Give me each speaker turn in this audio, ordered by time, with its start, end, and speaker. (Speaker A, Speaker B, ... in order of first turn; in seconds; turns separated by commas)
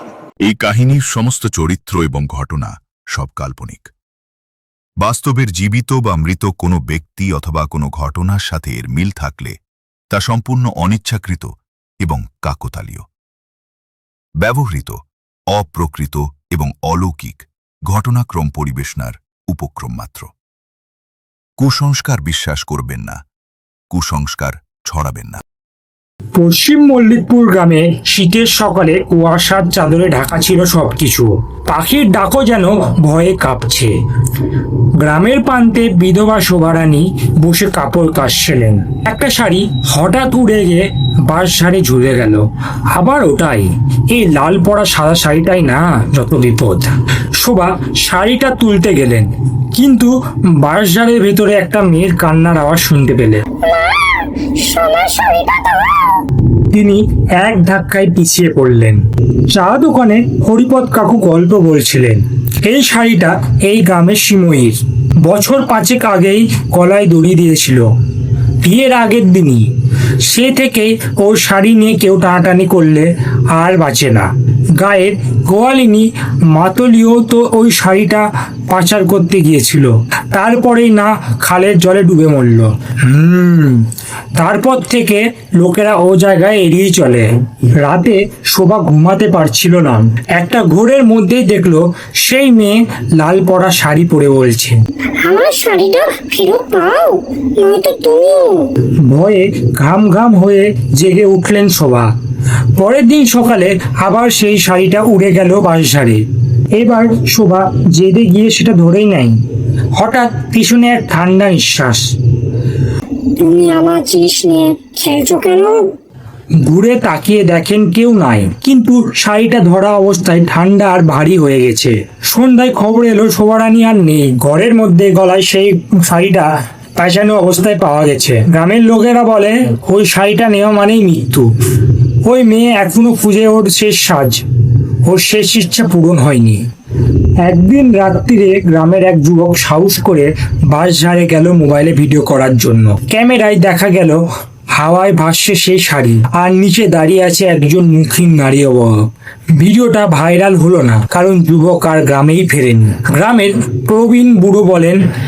Speaker A: 0.5-3.9, Speaker A: 5.0-9.5, Speaker A: 10.1-11.5, Speaker A: 12.0-13.0, Speaker A: 14.4-15.0, Speaker A: 15.5-20.3, Speaker A: 21.6-23.2, Speaker A: 23.9-25.4, Speaker B: 26.4-33.9, Speaker B: 35.0-42.4, Speaker B: 42.9-53.4, Speaker C: 53.7-56.0, Speaker B: 56.7-59.0, Speaker B: 59.5-67.9, Speaker B: 68.6-69.7, Speaker B: 70.3-83.8, Speaker B: 84.4-87.3, Speaker B: 87.8-94.8, Speaker C: 95.1-98.7, Speaker B: 99.1-102.1, Speaker B: 102.8-106.2, Speaker B: 106.8-109.4, Speaker B: 110.0-112.1, Speaker C: 113.4-115.9, Speaker B: 116.6-131.5, Speaker B: 132.2-134.4, Speaker B: 135.1-136.6, Speaker B: 137.4-144.2, Speaker B: 144.7-148.9, Speaker B: 149.6-155.0